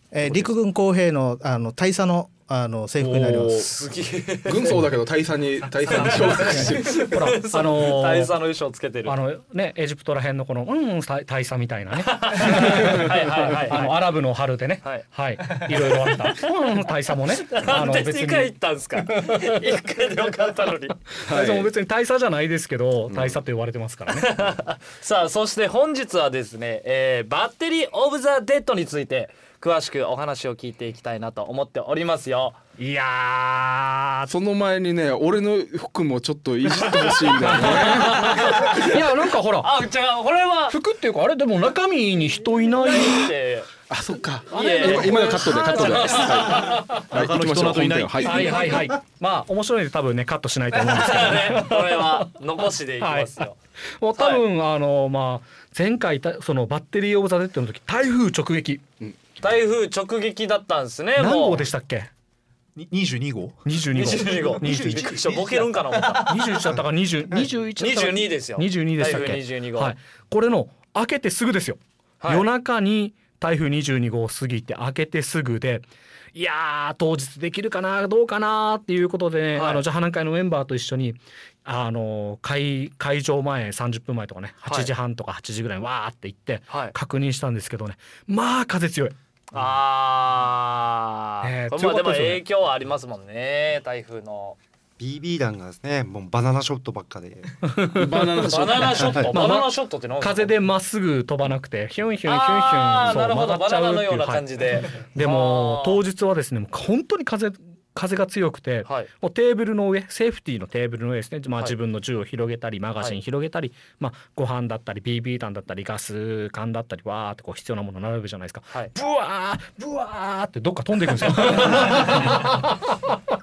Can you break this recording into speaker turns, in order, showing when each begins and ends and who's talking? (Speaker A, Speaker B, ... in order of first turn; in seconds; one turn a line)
Speaker A: 0.1-3.7
Speaker B: 3.0-3.7
Speaker C: 3.6-4.7
Speaker B: 4.5-7.1
Speaker C: 5.8-9.2
Speaker D: 6.9-8.3
Speaker D: 9.1-18.5
Speaker C: 12.0-14.0
Speaker C: 14.8-16.5
Speaker C: 17.4-21.0
Speaker D: 19.1-19.6
Speaker B: 21.3-21.7
Speaker D: 21.3-24.5
Speaker B: 23.1-23.4
Speaker C: 24.1-32.6
Speaker D: 32.8-34.3
Speaker B: 34.3-38.8
Speaker D: 37.4-39.8
Speaker C: 37.6-39.0
Speaker C: 39.6-40.8
Speaker D: 40.7-43.3
Speaker C: 42.7-43.7
Speaker B: 43.9-48.8
Speaker C: 44.5-46.8
Speaker D: 44.5-47.0
Speaker E: 47.0-48.5
Speaker D: 48.2-52.4
Speaker C: 50.7-53.5
Speaker D: 53.0-53.4
Speaker D: 54.0-58.8
Speaker C: 54.2-54.4
Speaker C: 59.4-61.6
Speaker D: 61.2-62.1
Speaker E: 62.8-63.6
Speaker D: 63.6-65.2
Speaker C: 63.9-66.5
Speaker E: 64.6-66.4
Speaker F: 64.7-65.3
Speaker D: 66.2-89.1
Speaker C: 67.8-69.9
Speaker C: 72.2-72.5
Speaker C: 79.5-79.8
Speaker C: 84.6-84.9
Speaker C: 86.7-86.9
Speaker C: 89.5-94.6
Speaker D: 91.4-92.4
Speaker F: 95.0-97.7
Speaker D: 97.7-98.5
Speaker B: 97.9-99.3
Speaker C: 98.4-100.5
Speaker D: 99.3-123.2
Speaker C: 102.2-106.0
Speaker C: 121.7-122.2